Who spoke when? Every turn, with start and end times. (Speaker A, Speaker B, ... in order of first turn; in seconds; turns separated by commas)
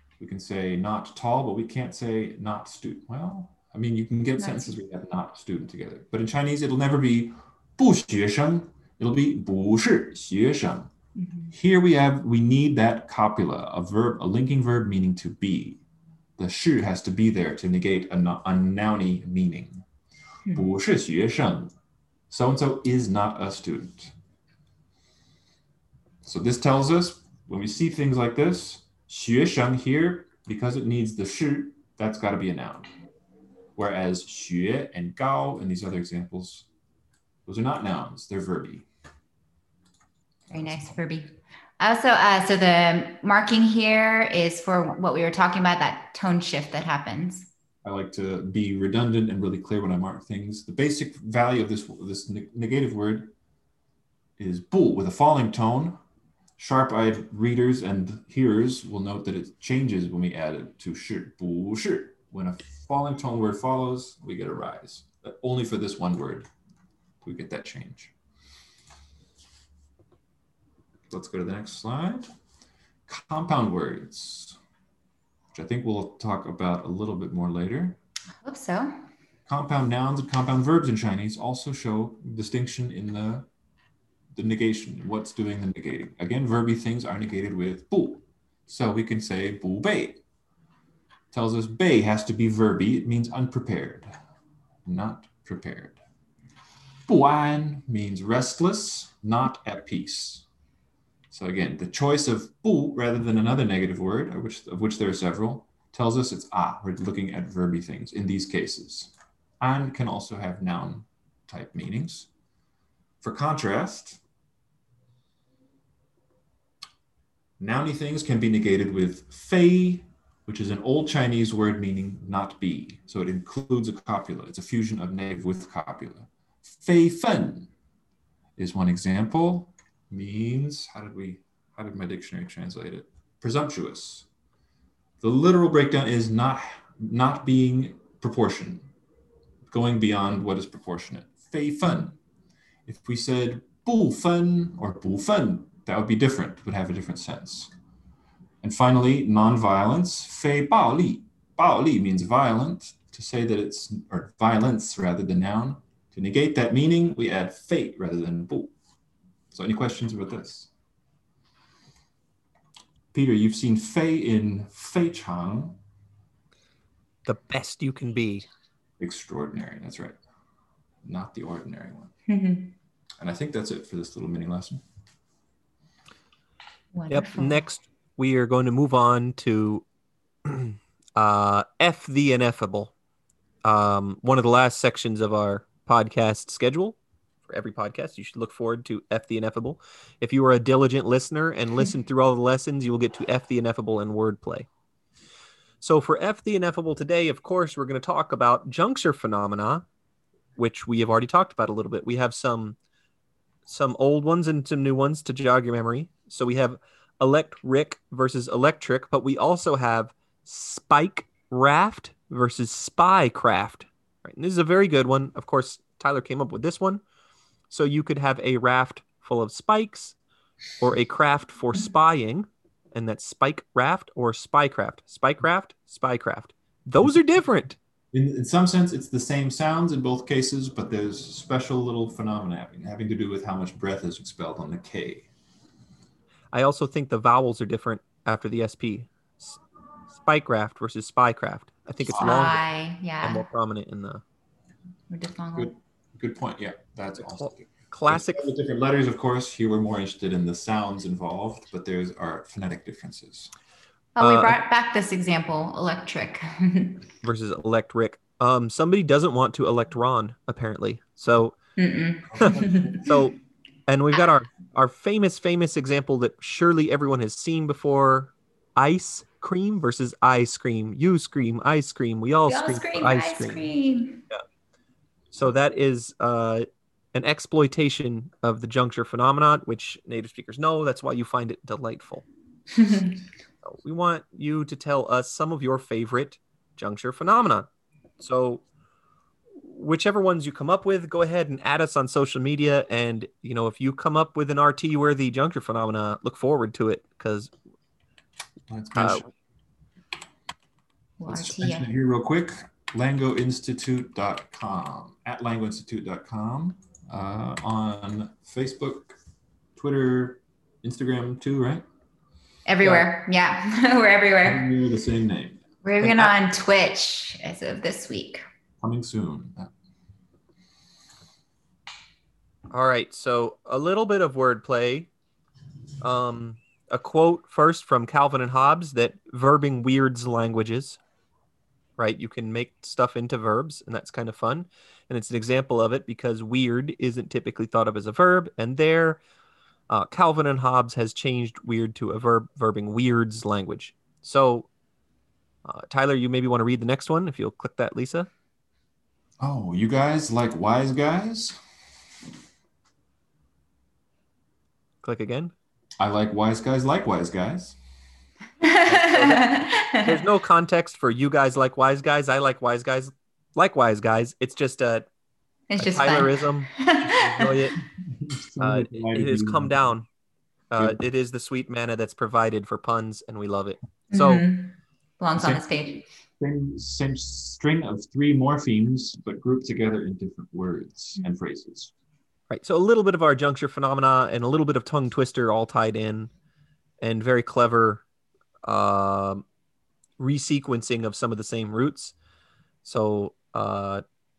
Speaker A: 0.2-10.9, Speaker B: 4.4-4.8, Speaker B: 11.2-11.5, Speaker A: 11.5-15.8, Speaker A: 16.4-19.9, Speaker A: 20.5-21.7, Speaker A: 22.3-24.1, Speaker A: 26.2-32.9, Speaker A: 33.8-36.7, Speaker A: 37.5-38.9, Speaker B: 40.5-47.5, Speaker A: 47.8-53.3, Speaker A: 54.4-56.0, Speaker A: 56.6-66.5, Speaker A: 67.2-68.1, Speaker A: 71.1-72.3, Speaker A: 73.1-74.6, Speaker A: 75.5-78.0, Speaker B: 78.4-78.9, Speaker A: 79.5-83.5, Speaker A: 84.3-90.2, Speaker A: 91.3-94.1, Speaker A: 94.8-96.0, Speaker A: 97.1-100.5, Speaker A: 101.3-112.3, Speaker A: 113.2-114.2, Speaker A: 117.6-127.7, Speaker A: 128.6-134.3, Speaker A: 135.2-138.9, Speaker A: 139.7-142.2, Speaker A: 142.9-147.7, Speaker A: 148.6-158.7, Speaker A: 159.5-160.7, Speaker A: 163.1-165.8, Speaker C: 167.3-168.5, Speaker A: 169.0-170.2, Speaker A: 171.0-172.1, Speaker B: 172.3-172.7, Speaker A: 173.2-174.8, Speaker B: 176.9-177.7, Speaker C: 177.1-179.8, Speaker C: 180.4-182.9, Speaker C: 183.6-194.7, Speaker C: 195.8-199.9, Speaker C: 200.6-202.8, Speaker C: 203.7-217.0, Speaker C: 217.7-220.2, Speaker C: 220.8-227.8, Speaker A: 228.1-235.3, Speaker C: 236.5-239.6, Speaker C: 240.1-242.6, Speaker A: 242.1-242.5, Speaker B: 242.2-243.4, Speaker C: 243.2-244.2, Speaker B: 245.1-245.7, Speaker A: 245.5-253.5, Speaker C: 247.2-248.5, Speaker B: 254.2-257.1, Speaker C: 254.2-254.6, Speaker C: 257.2-261.6, Speaker B: 261.8-263.1, Speaker A: 262.4-262.7, Speaker C: 262.4-263.4, Speaker C: 263.9-273.7, Speaker B: 272.5-274.2, Speaker C: 275.3-282.3, Speaker B: 282.8-283.1, Speaker C: 283.6-287.7, Speaker C: 288.2-288.6, Speaker C: 289.6-297.5, Speaker A: 298.7-299.3, Speaker C: 298.9-299.3, Speaker B: 301.2-301.9, Speaker A: 301.3-309.1, Speaker A: 309.8-311.9, Speaker B: 312.7-314.7, Speaker A: 314.4-315.6, Speaker B: 315.8-318.4, Speaker C: 316.0-316.3, Speaker A: 318.8-319.7, Speaker C: 322.7-325.1, Speaker C: 326.0-331.0, Speaker C: 332.0-339.2, Speaker C: 339.9-344.7, Speaker C: 345.6-348.3, Speaker A: 349.4-351.6, Speaker C: 355.0-355.5, Speaker A: 356.0-357.8, Speaker B: 358.6-360.2, Speaker C: 358.9-365.1, Speaker B: 365.7-367.6, Speaker C: 365.8-367.8, Speaker A: 368.1-369.9, Speaker C: 368.6-370.1, Speaker C: 370.7-374.5, Speaker B: 374.1-376.0, Speaker A: 375.4-375.8, Speaker A: 376.4-381.9, Speaker C: 382.5-386.3, Speaker C: 387.0-388.0, Speaker C: 388.6-389.4, Speaker C: 390.2-392.1, Speaker C: 392.8-394.0